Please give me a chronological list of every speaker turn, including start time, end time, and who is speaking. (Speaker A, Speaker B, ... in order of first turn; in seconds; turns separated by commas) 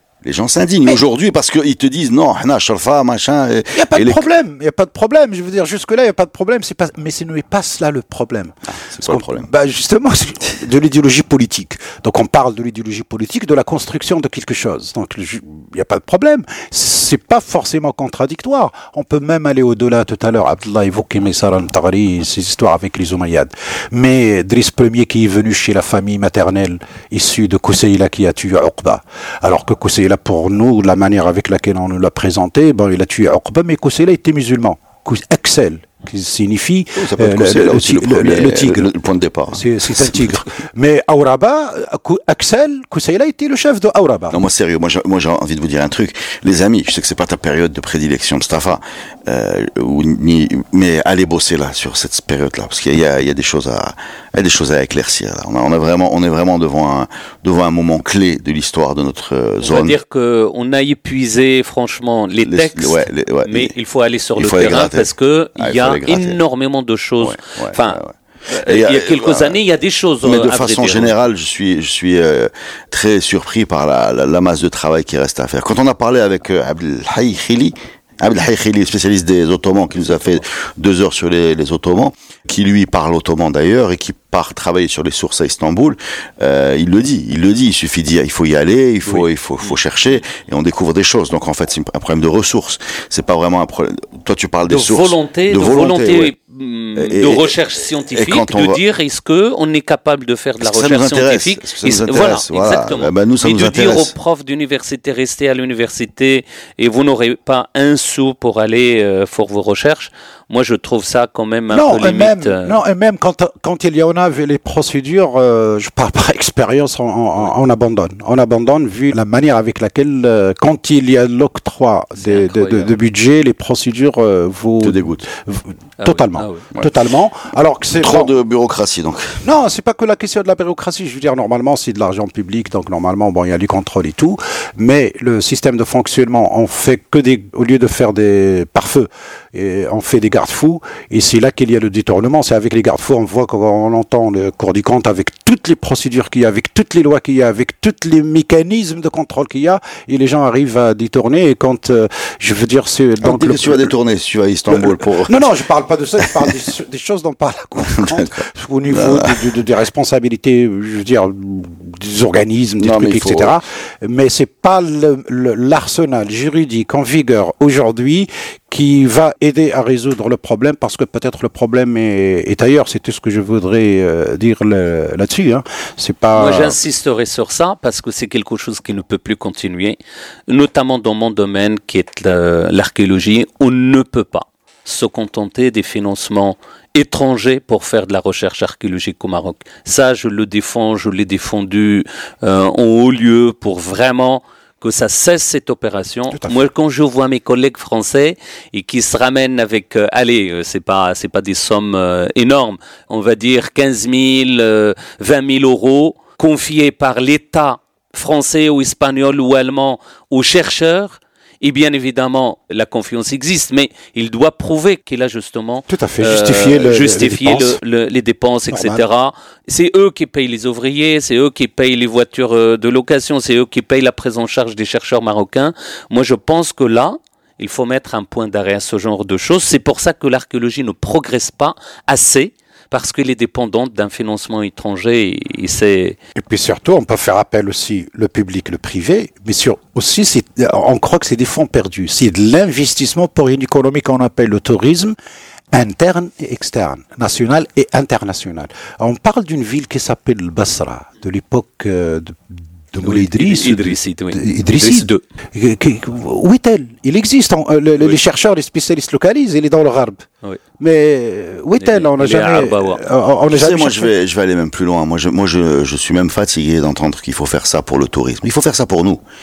Speaker A: 0.2-4.3, Speaker B: 3.7-8.5, Speaker A: 8.8-9.5, Speaker B: 9.0-38.9, Speaker A: 37.0-40.4, Speaker B: 39.5-44.4, Speaker A: 44.3-60.0, Speaker C: 59.6-71.2, Speaker A: 62.4-63.7, Speaker A: 64.3-66.4, Speaker A: 67.2-69.6, Speaker A: 70.2-96.3, Speaker C: 89.0-89.8, Speaker C: 94.7-112.8, Speaker A: 97.0-97.6, Speaker A: 98.1-98.8, Speaker A: 100.6-104.1, Speaker B: 111.7-128.3, Speaker C: 122.2-122.9, Speaker A: 124.8-125.2, Speaker C: 126.0-126.7, Speaker A: 128.0-129.4, Speaker B: 129.4-153.9, Speaker A: 153.2-155.5, Speaker B: 154.7-176.8, Speaker A: 156.3-156.5, Speaker A: 157.8-159.5, Speaker A: 162.8-163.6, Speaker C: 176.3-180.0, Speaker C: 180.5-236.2, Speaker B: 196.3-196.6, Speaker B: 215.9-217.8, Speaker B: 218.7-219.0, Speaker B: 236.3-245.1, Speaker B: 245.7-260.2, Speaker C: 253.0-255.2, Speaker B: 260.8-264.1, Speaker C: 261.8-263.0, Speaker A: 263.5-269.2